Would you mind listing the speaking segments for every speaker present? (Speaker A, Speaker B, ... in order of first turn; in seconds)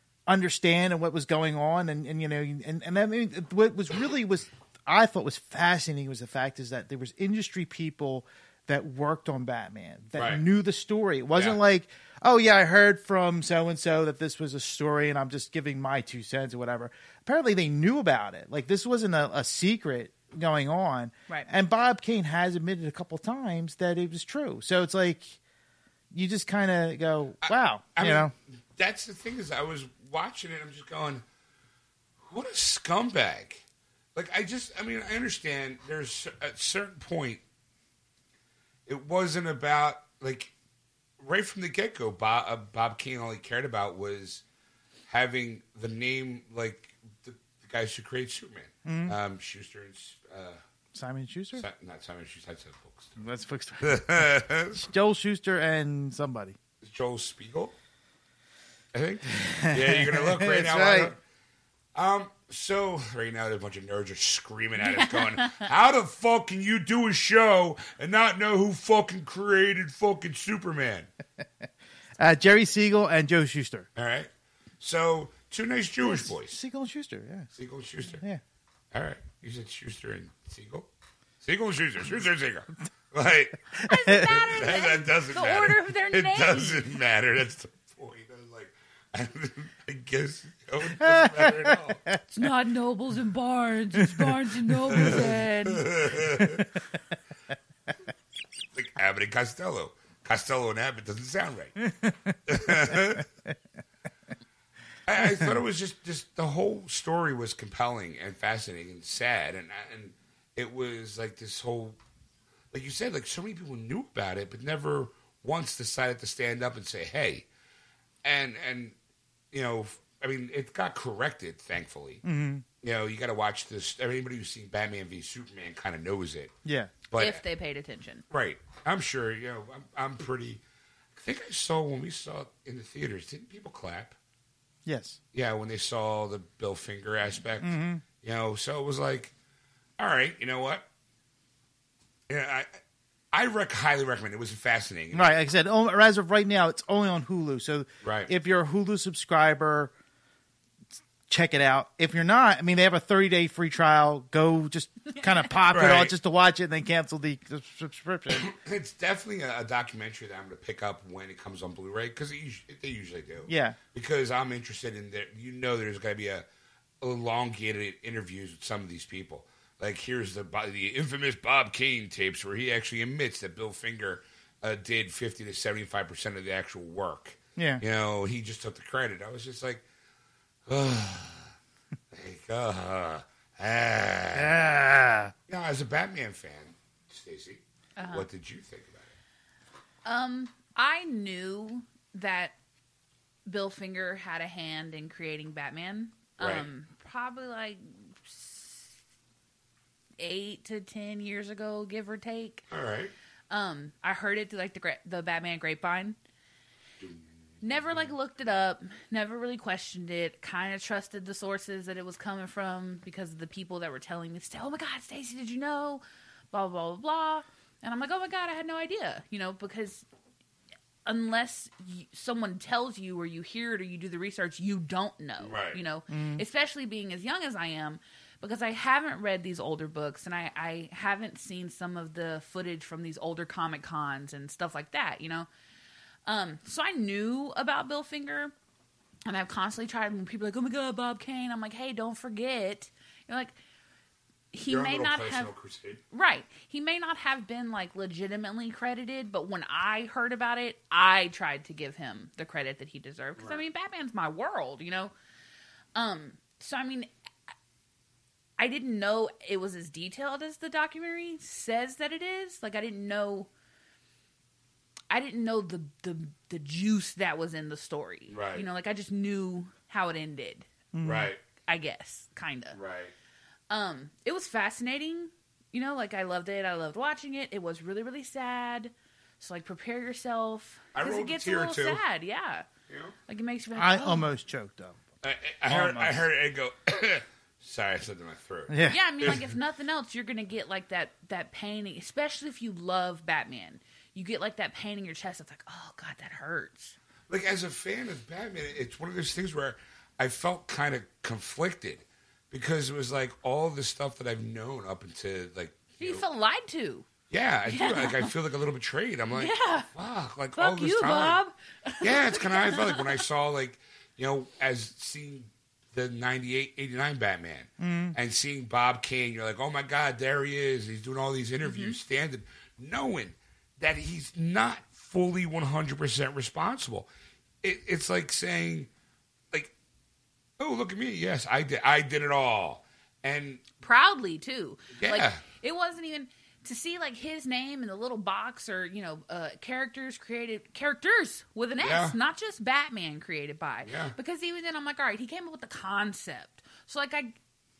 Speaker A: 0.3-25.4, 26.1-28.3, 48.8-49.1, 50.9-51.6, 53.2-56.6, 59.3-61.1, 72.2-73.9, 76.0-77.5, 83.8-84.3, 91.0-92.2, 94.0-95.3, 96.4-96.7, 101.8-103.2, 122.2-122.6, 126.6-126.9, 134.8-135.2, 137.6-138.0, 145.1-149.9, 151.3-158.5, 163.5-163.8, 177.6-177.8, 184.3-185.3, 226.1-226.4, 270.9-271.3, 283.8-285.0, 285.7-286.2, 288.7-289.0, 317.8-318.1
Speaker B: 10.2-10.4, 27.4-31.2, 32.2-33.6, 34.1-37.4, 38.9-40.5, 41.2-44.4, 45.1-50.6, 51.5-53.2, 53.8-54.9, 56.8-57.7, 58.9-61.2, 61.9-71.1, 74.0-76.6, 77.5-78.2, 78.9-80.9, 81.4-83.6, 84.2-92.0, 94.9-96.7, 98.7-101.8, 102.5-103.2, 105.1-112.0, 112.7-117.5, 118.2-118.9, 119.5-122.2, 122.8-126.5, 127.1-127.4, 128.3-130.6, 131.1-134.1, 135.3-139.3, 140.0-140.8, 142.3-142.7, 143.3-145.4, 148.0-148.3, 155.7-156.1, 158.3-166.4, 167.0-179.8, 180.7-181.5, 182.1-184.6, 185.5-189.1, 196.4-196.7, 202.7-203.1, 207.0-208.1, 225.4-225.8, 244.7-246.0, 253.4-253.6, 268.3-268.6, 271.0-271.4, 272.7-273.1, 280.9-282.0, 282.9-283.1, 285.2-289.5, 297.3-306.2, 307.3-311.4, 312.0-327.1, 327.6-328.9, 330.6-333.6, 334.9-335.4, 341.8-342.1, 343.8-344.1
Speaker C: 64.8-65.7, 83.8-86.8, 92.3-95.8, 127.2-128.2, 188.0-188.3, 190.0-192.5, 193.4-198.9, 200.2-202.6, 203.5-206.2, 207.6-220.0, 221.0-235.5, 236.2-238.5, 239.2-243.5, 244.5-245.5, 246.1-255.1, 255.9-257.1, 258.6-263.5, 265.1-270.7, 271.6-272.8, 273.7-282.7, 283.3-284.3, 288.9-296.9, 306.0-307.1, 307.7-308.3, 309.3-309.9, 310.6-313.2, 321.6-321.9, 333.8-347.4